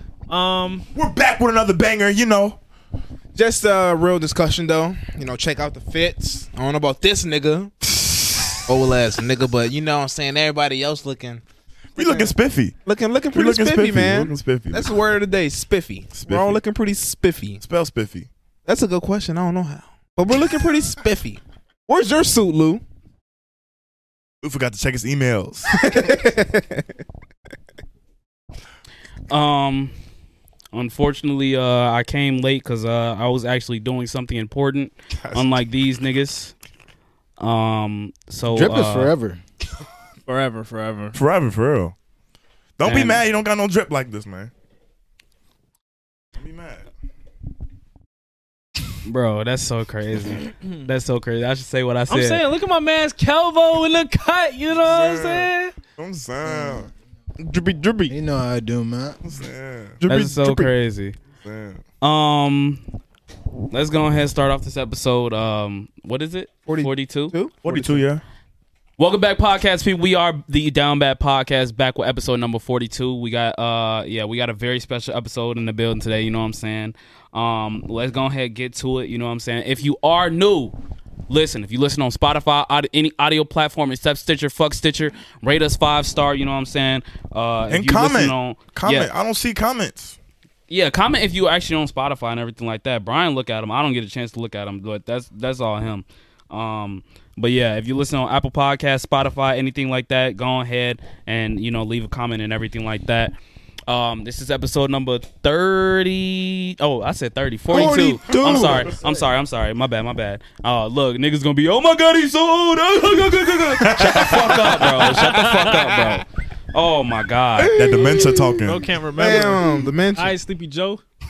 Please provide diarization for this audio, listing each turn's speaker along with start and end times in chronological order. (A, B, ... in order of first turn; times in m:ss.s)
0:00.3-0:00.8 A
0:00.9-0:02.6 B
0:03.3-0:07.7 C
0:08.0-0:08.6 B
0:08.6-0:11.4 C
0:12.0-0:12.7 B
0:12.0-0:17.6 C
0:13.3-0:15.0 B
0:16.2-0:16.6 B
0:17.6-0:18.3 B
0:18.6-0:22.8 C
0:24.4-0:26.2 B
0:25.8-0:26.9 C
0:29.3-0:29.9 D
0:30.7-0:36.5 D
0:35.1-0:35.6 B
0:37.4-0:39.1 D
0:38.4-0:39.4 E
0:40.3-0:41.2 A
0:41.1-0:41.9 B
0:42.8-0:44.5 B
0:42.8-0:43.2 D
0:46.4-0:46.8 B
0:49.0-0:52.4 D
0:52.1-0:55.7 A
0:54.7-0:56.9 B
0:56.5-0:56.8 E
0:57.4-0:58.1 C
0:58.1-0:59.2 E
0:59.2-1:00.0 B
1:00.0-1:00.7 C
1:00.1-1:01.2 D
1:01.4-1:01.8 B
1:02.0-1:02.8 D
1:03.7-1:07.3 D
1:06.7-1:08.0 C
1:07.6-1:08.2 B
1:09.0-1:20.8 D
1:21.3-1:29.1 D
1:27.7-1:30.2 B
1:30.7-1:43.3 D
1:43.9-1:57.8 D
1:47.7-1:48.9 C
1:47.7-1:49.2 B
1:53.8-1:54.9 B
1:54.0-1:56.1 C
1:55.3-1:55.6 A
1:57.6-1:58.6 C
1:57.7-1:58.9 B
1:58.6-2:01.0 A
1:59.2-2:00.3 C